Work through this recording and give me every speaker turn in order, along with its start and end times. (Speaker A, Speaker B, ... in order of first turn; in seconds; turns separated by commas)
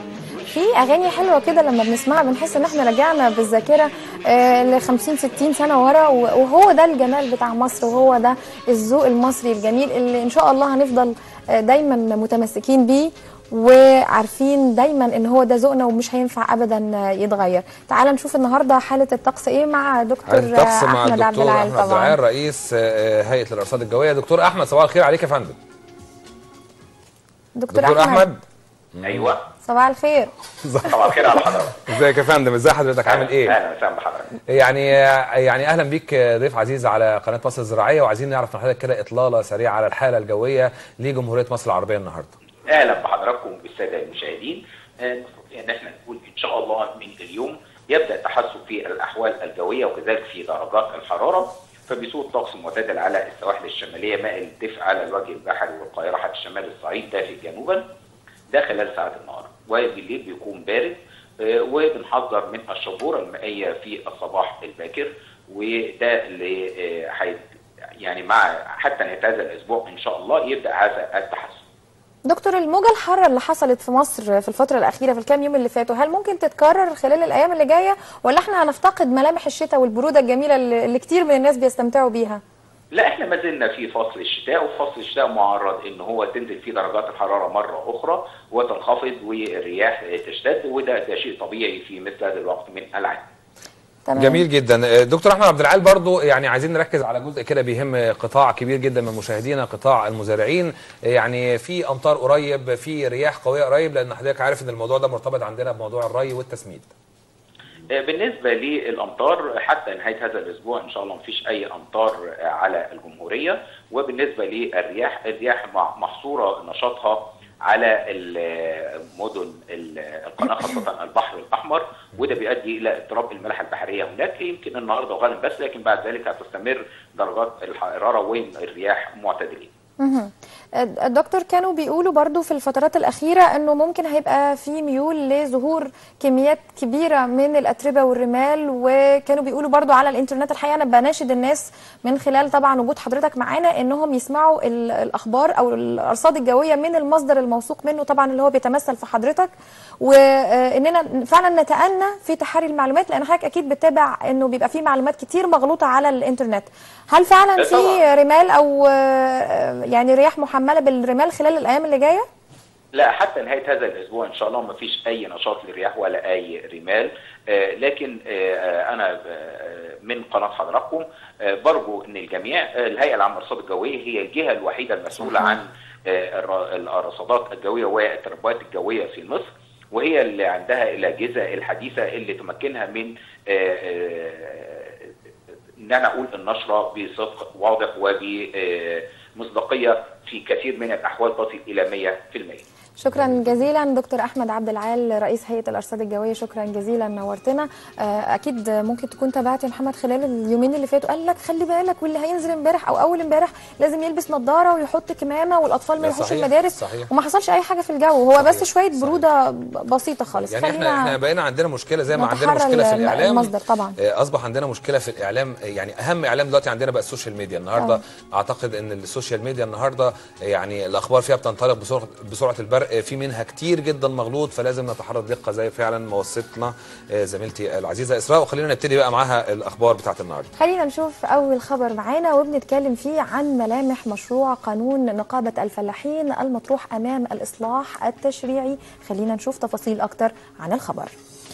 Speaker A: 0.5-22.2, Speaker B: 20.3-25.6, Speaker A: 27.6-28.3, Speaker B: 27.7-28.4, Speaker B: 28.9-29.3, Speaker C: 29.0-29.4, Speaker A: 29.6-30.3, Speaker B: 30.6-33.6, Speaker C: 30.8-31.8, Speaker C: 33.1-34.4, Speaker B: 34.5-42.3, Speaker C: 42.7-57.8, Speaker C: 58.5-67.4, Speaker C: 68.0-71.6, Speaker A: 72.3-82.4, Speaker C: 82.9-93.3, Speaker A: 94.0-94.4, Speaker B: 94.2-106.9, Speaker C: 107.9-129.7, Speaker A: 130.0-162.2, Speaker C: 157.6-158.0, Speaker C: 162.9-185.1, Speaker C: 185.8-192.6, Speaker A: 193.0-211.2, Speaker B: 193.1-193.6, Speaker B: 206.0-207.1, Speaker B: 208.4-209.2, Speaker B: 210.4-230.5, Speaker A: 212.1-214.0, Speaker A: 217.8-218.0, Speaker A: 230.6-241.1